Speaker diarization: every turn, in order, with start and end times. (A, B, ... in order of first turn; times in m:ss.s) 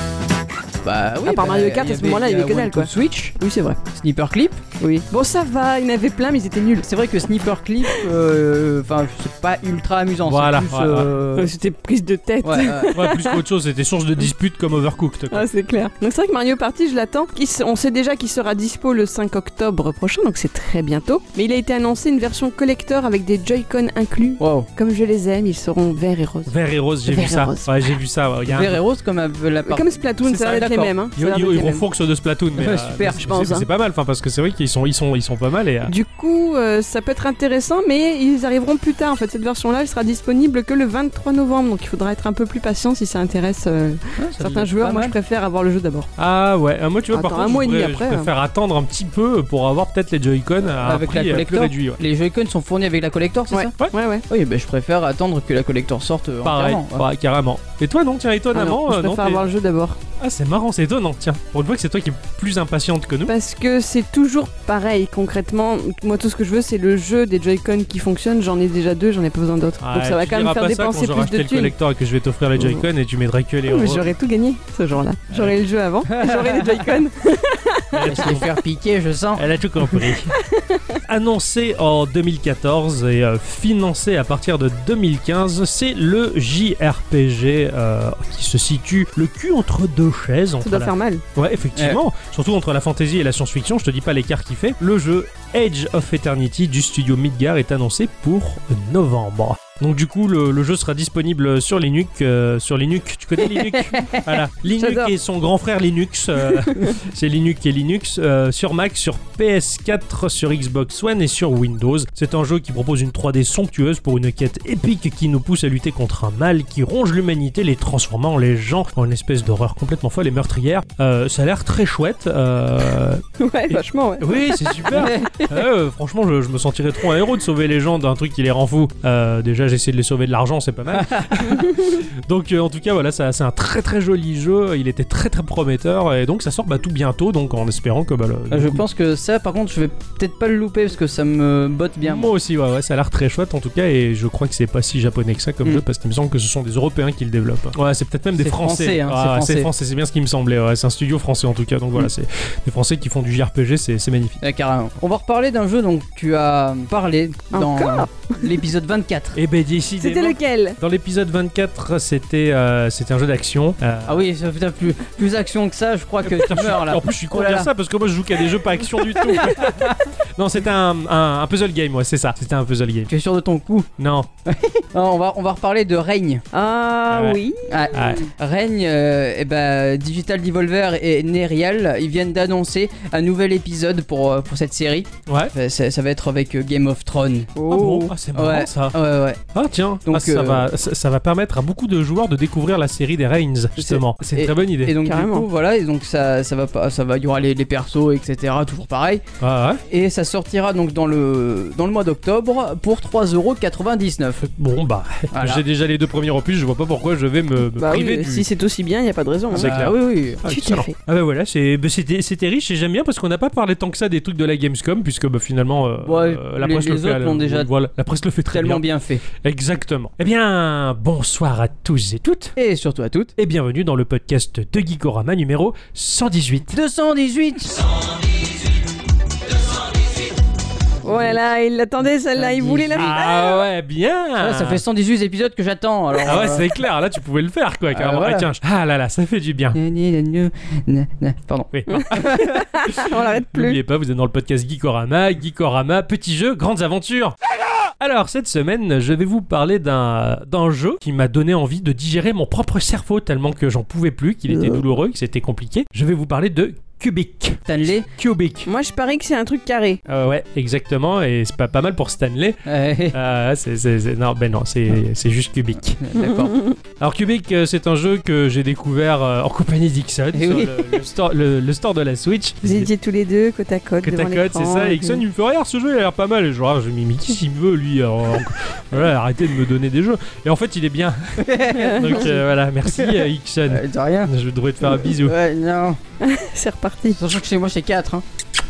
0:00.8-0:03.3 A
0:01.2-0:03.8 B
0:03.9-0:05.0 A
0:05.1-0:06.9 B
0:06.8-0:11.5 A
0:10.2-0:11.1 C
0:11.4-0:13.4 B
0:12.4-0:13.0 A
0:12.9-0:15.5 C
0:15.3-0:26.5 B
0:24.4-0:24.7 A
0:26.5-0:28.8 C
0:27.0-0:27.7 B
0:28.5-0:30.9 A
0:29.6-0:31.8 B
0:30.2-0:35.9 C
0:32.5-0:33.2 A
0:33.2-0:33.6 B
0:35.8-0:46.1 B
0:44.2-0:45.1 A
0:46.2-0:52.0 C
0:47.1-0:48.3 B
0:50.8-0:53.7 A
0:53.5-0:54.2 B
0:54.3-0:57.0 A
0:56.4-0:59.4 C
0:58.5-1:00.0 B
1:00.2-1:03.3 C
1:03.3-1:11.7 B
1:09.8-1:14.0 C
1:12.6-1:12.8 B
1:13.7-1:18.4 B
1:16.1-1:17.0 A
1:17.9-1:18.5 C
1:18.1-1:19.4 A
1:19.3-1:20.3 C
1:20.4-1:20.9 B
1:21.0-2:18.8 C
1:30.6-1:31.2 B
1:31.7-1:32.0 A
1:43.6-1:44.3 A
1:44.8-1:45.1 B
1:46.5-1:46.9 B
2:03.4-2:05.1 B
2:04.9-2:05.6 A
2:11.0-2:11.4 A
2:11.5-2:12.0 B
2:18.5-2:22.3 A
2:22.0-2:34.4 C
2:28.4-2:29.7 A
2:34.4-2:39.4 A
2:37.5-2:38.5 B
2:39.3-2:44.2 C
2:40.0-2:40.8 B
2:44.0-2:47.7 A
2:46.2-2:53.1 C
2:49.5-2:50.0 A
2:53.1-2:53.9 A
2:54.0-2:54.3 C
2:54.4-2:56.4 A
2:56.5-2:57.6 B
2:57.1-2:57.4 C
2:57.7-3:07.6 A
2:57.9-2:58.3 C
3:05.3-3:05.5 C
3:07.5-3:08.1 B
3:07.7-3:08.9 C
3:08.3-3:09.4 A
3:09.5-3:15.0 C
3:10.0-3:10.7 A
3:13.8-3:19.2 A
3:15.0-3:15.5 B
3:19.4-3:19.8 C
3:19.9-3:24.4 A
3:24.4-3:28.4 C
3:25.3-3:25.6 A
3:27.7-3:29.7 B
3:29.5-3:30.4 A
3:29.5-3:38.8 C
3:30.4-3:30.9 B
3:36.0-3:37.7 A
3:38.5-3:39.2 A
3:39.3-3:42.5 C
3:42.6-3:43.3 A
3:43.4-3:46.8 C
3:46.7-3:47.9 A
3:51.0-3:53.5 B
3:51.0-3:51.4 A
3:52.3-3:53.2 A
3:52.9-3:54.8 C
3:54.4-3:56.7 A
3:56.2-3:59.8 C
3:57.9-3:58.5 A
3:59.7-4:02.5 A
4:01.7-4:07.4 C
4:02.0-4:03.8 B
4:08.0-4:18.7 C
4:14.5-4:14.8 B
4:17.7-4:18.1 A
4:18.6-4:20.0 B
4:20.1-4:26.0 C
4:22.6-4:23.2 A
4:26.0-4:26.6 A
4:26.2-4:26.7 B
4:27.0-4:32.9 C
4:30.3-4:31.0 A
4:32.6-4:35.2 B
4:34.0-4:45.3 C
4:41.4-4:42.4 A
4:41.7-4:42.2 B
4:42.9-4:44.3 A
4:44.8-4:46.0 A
4:46.2-4:47.2 B
4:47.2-4:48.2 A